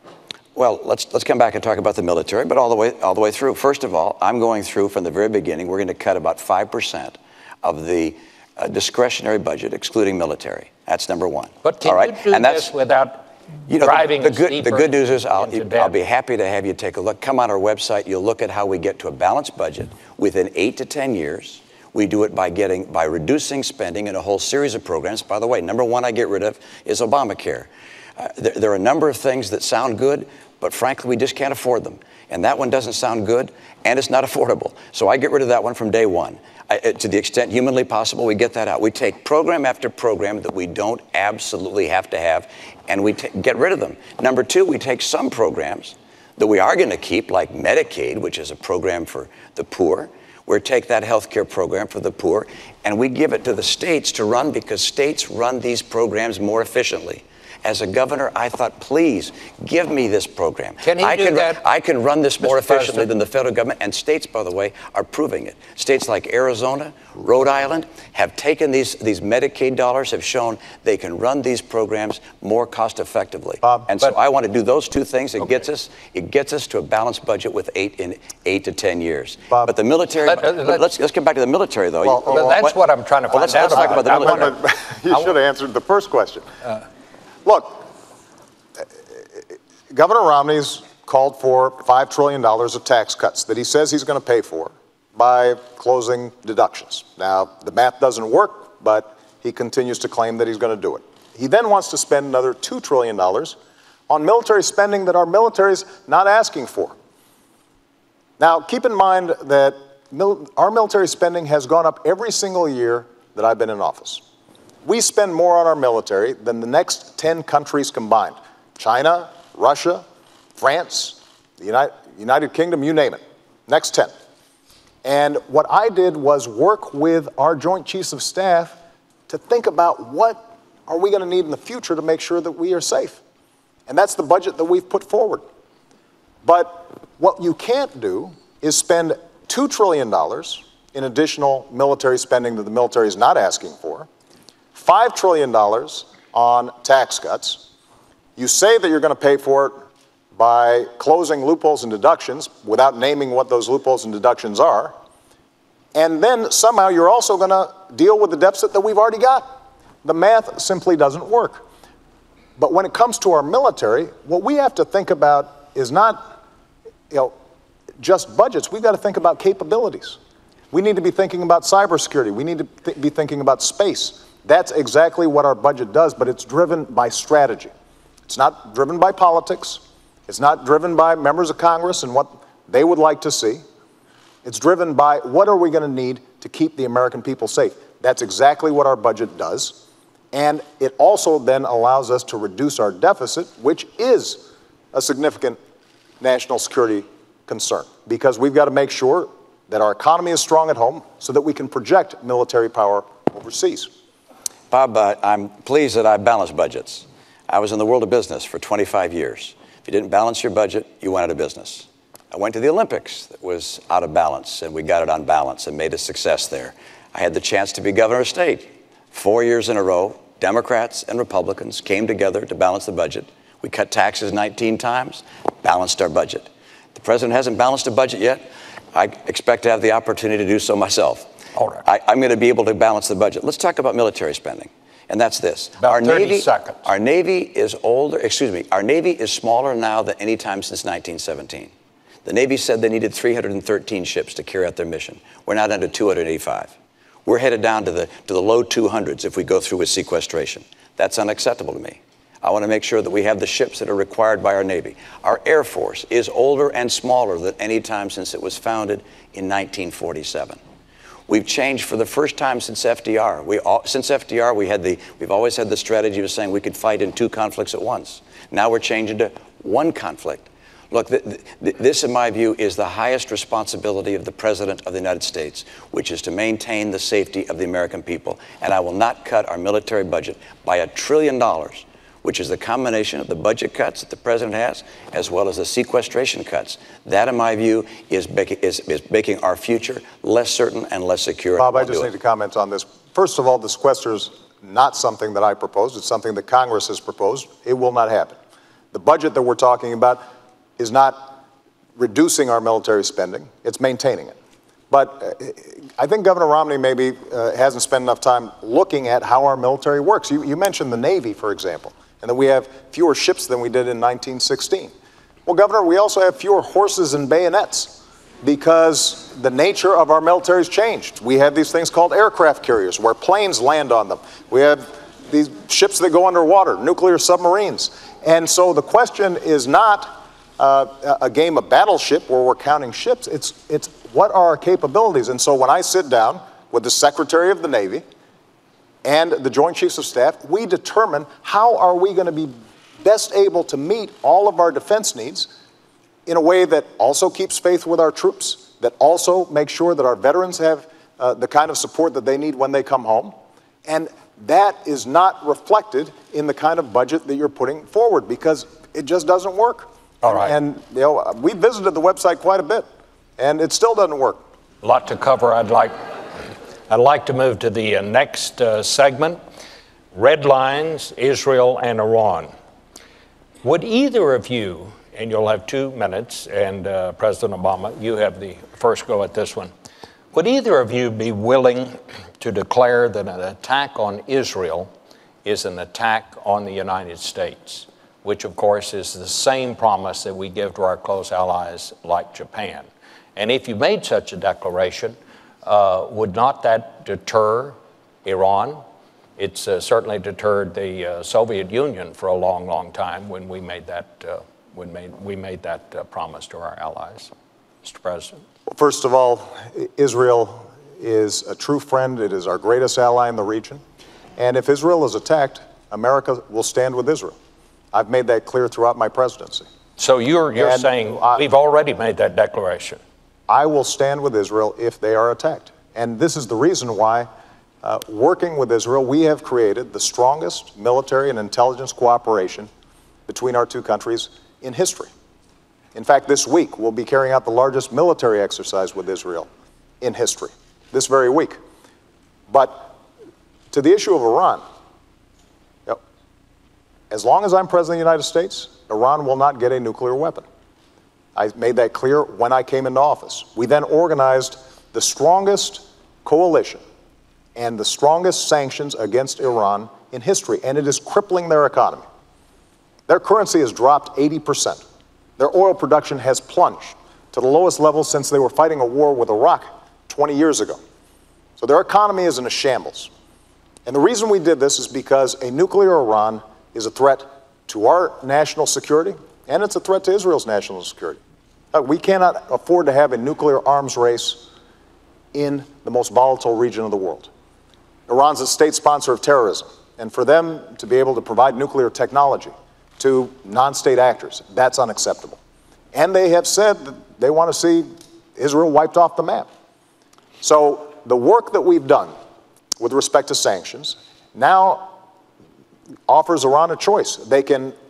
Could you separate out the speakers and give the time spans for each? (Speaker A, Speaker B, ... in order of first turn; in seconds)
Speaker A: 0.6-12.7, 13.7-82.8, 83.3-84.6, 204.7-231.3, 231.8-241.7, 242.2-246.7, 247.3-260.6, 261.3-292.1
Speaker B: 11.6-15.9, 60.8-61.6, 62.4-63.1, 80.2-80.9, 82.3-84.6, 231.6-231.8, 235.8-236.9, 360.2-360.5, 364.8-366.0, 366.9-369.4, 370.1-372.5, 373.6-379.7, 380.3-384.9, 385.4-398.8, 399.4-407.3, 407.8-408.4, 420.0-423.0
Speaker C: 73.6-73.9, 82.0-82.6, 83.5-86.5, 87.5-87.9, 89.9-103.6, 104.1-107.0, 108.4-114.2, 114.8-124.1, 125.0-128.8, 129.3-133.2, 133.9-135.4, 136.4-144.1, 144.7-147.6, 148.4-154.9, 155.9-159.5, 160.0-161.6, 162.6-166.3, 168.0-170.2, 170.7-177.7, 178.3-183.6, 184.4-189.8, 190.3-195.6, 196.2-203.9, 291.6-298.4, 298.9-300.2, 300.8-301.4, 302.0-304.4, 304.9-314.9, 315.5-338.0, 339.0-345.5, 346.3-353.4, 353.9-362.9, 363.4-364.4, 408.7-413.8, 414.4-417.4, 417.9-419.7, 420.6-421.4, 423.5-427.3, 427.8-432.7, 433.3-435.1, 435.9-439.5, 440.0-441.6, 442.5-442.9, 443.7-444.6, 447.1-450.4, 451.4-456.8, 457.6-462.1, 463.1-464.8, 465.4-470.8, 471.6-473.1, 473.9-481.2, 481.7-484.5, 485.3-487.3, 488.1-495.4, 495.9-499.5, 500.4-502.1, 502.8-504.9, 506.1-507.8